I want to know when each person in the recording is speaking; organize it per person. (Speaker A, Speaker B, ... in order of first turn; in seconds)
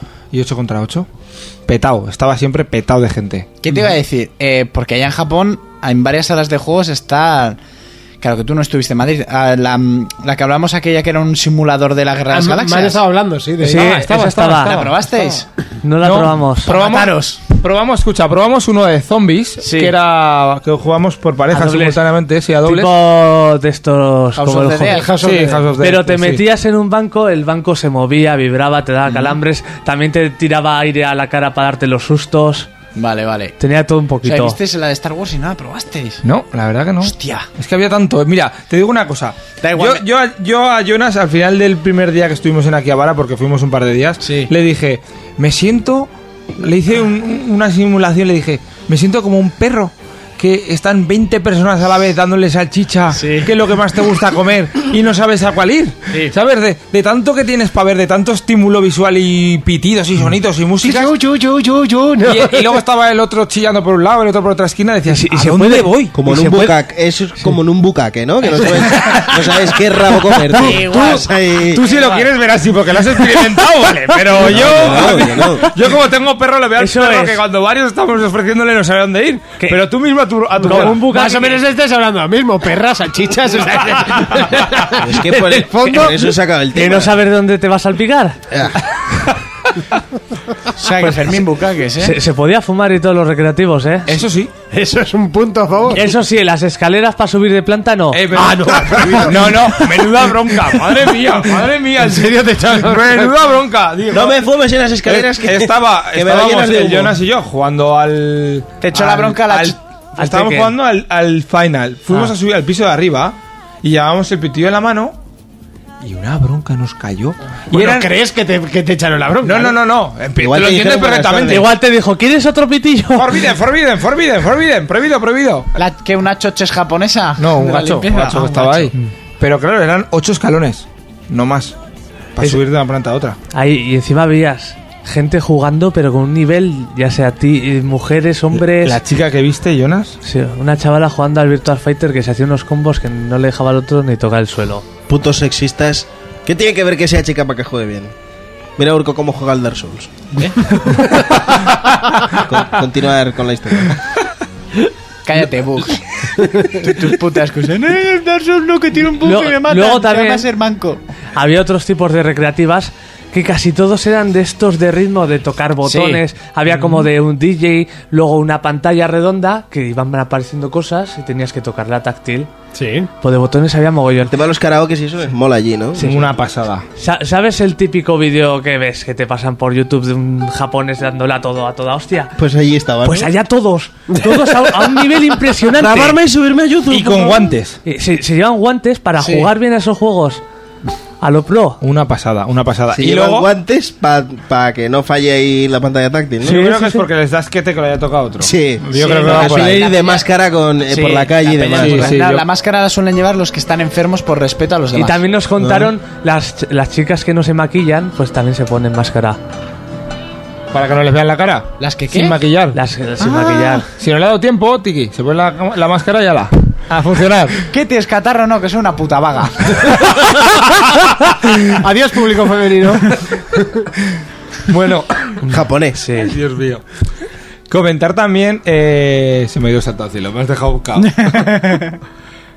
Speaker A: 0.3-1.1, 1.7-3.5, 13.7-14.9, 16.0-22.9, 25.0-26.4, 36.2-61.1, 62.2-66.0, 71.7-81.0, 94.1-94.5, 98.1-104.4, 105.0-115.1, 116.0-118.1, 119.4-121.7, 123.1-125.7, 127.4-131.7, 132.4-133.4, 138.7-140.2, 176.0-176.8, 186.9-187.8, 191.8-193.5, 196.4-199.8, 201.8-202.4, 210.7-212.8, 214.0-217.7, 224.7-225.4, 226.2-226.8, 227.7-231.6
Speaker B: 3.6-7.6, 8.2-13.0, 14.6-15.4, 16.7-17.4, 19.6-19.9, 24.4-25.6, 29.1-29.4, 33.0-33.5, 34.2-36.2, 37.0-37.5, 39.6-40.0, 44.2-44.5, 53.1-53.5, 70.6-72.3, 90.8-92.2, 108.8-109.8, 125.8-128.9, 150.3-150.7, 155.2-156.0, 156.8-161.0, 165.9-166.2, 198.9-200.3, 200.9-205.2, 211.8-212.4, 213.2-213.8, 217.7-219.9, 231.0-232.0
Speaker C: 12.3-14.0, 25.2-25.6, 60.8-62.8, 80.7-86.3, 94.7-96.1, 98.3-100.5, 101.3-103.3, 117.7-119.8, 172.7-173.1, 221.5-223.9
Speaker D: 13.6-14.8, 15.8-16.7, 21.5-22.0, 22.6-25.1, 25.8-32.7, 33.6-34.6, 65.1-66.7, 68.9-69.3, 76.8-77.4, 80.6-81.6, 86.7-88.4, 92.0-94.1, 95.9-98.2, 110.2-110.7, 121.4-123.5, 133.5-139.0, 140.2-144.8, 159.2-160.4, 161.3-172.5, 173.2-174.4, 176.0-176.3, 176.9-182.3, 183.0-186.2, 187.8-190.4, 191.2-191.8, 196.4-197.1, 204.9-209.4, 212.7-213.9, 225.4-226.3
Speaker E: 66.1-71.8, 74.4-75.7, 85.0-87.1, 88.5-88.8, 104.1-107.2, 120.4-121.7, 145.1-148.1, 148.8-150.1, 152.4-153.9, 174.3-176.0, 182.4-183.3, 185.7-187.6, 192.9-196.6, 198.4-202.2, 205.6-205.9, 225.5-226.0